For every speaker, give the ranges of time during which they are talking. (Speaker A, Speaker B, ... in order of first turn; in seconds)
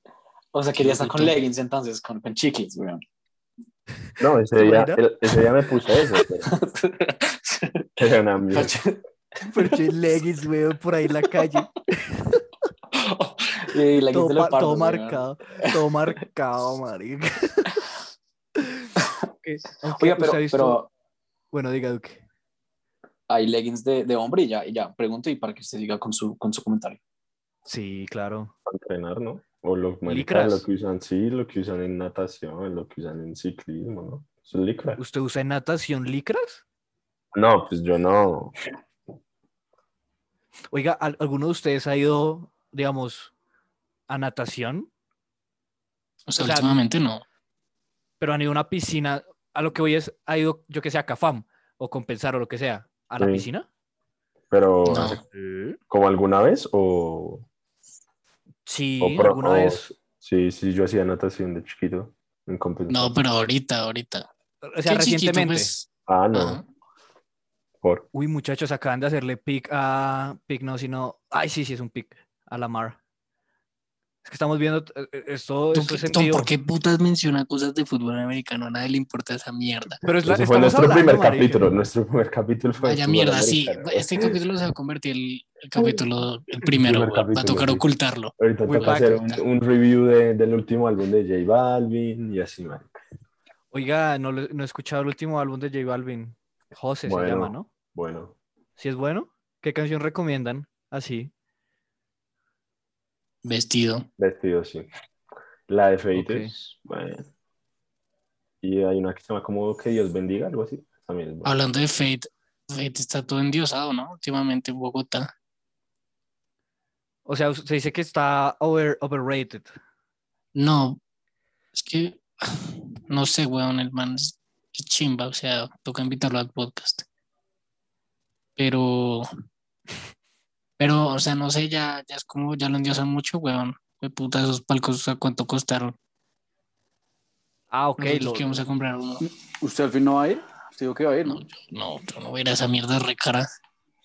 Speaker A: 0.5-3.0, 6.4-9.0, 12.9-15.8, 20.0-20.9, 23.3-27.0
Speaker B: 0.8-1.4, 46.3-47.2, 54.9-55.2, 62.9-64.3, 64.9-66.7, 75.7-80.0, 82.8-89.4, 103.4-104.1, 111.5-115.3, 120.5-121.0, 121.8-127.1, 128.6-129.3, 130.8-136.0, 138.0-139.2, 141.3-143.5
Speaker C: 4.2-6.5, 8.0-8.8, 28.7-35.0, 37.3-38.5, 53.2-53.5, 54.5-55.2, 55.9-57.5, 59.0-63.2, 66.1-66.6, 67.8-68.1, 80.2-84.4, 86.7-87.8, 88.4-93.0, 97.1-98.3, 104.2-104.9, 105.7-107.3, 108.6-111.5
Speaker D: 4.6-5.0, 9.5-12.4, 14.1-17.7, 18.6-18.9, 19.4-20.8, 21.5-22.2, 27.7-28.5, 30.1-30.7, 35.0-36.6, 40.7-43.3, 44.1-44.9, 46.4-46.8, 48.2-53.7, 55.3-55.8, 58.7-59.9, 64.7-65.7, 68.1-73.0, 74.2-76.5, 80.0-81.7, 88.7-89.3, 93.7-97.7, 98.8-101.3, 106.1-106.5, 117.3-119.7, 137.7-138.7
Speaker E: 139.2-141.4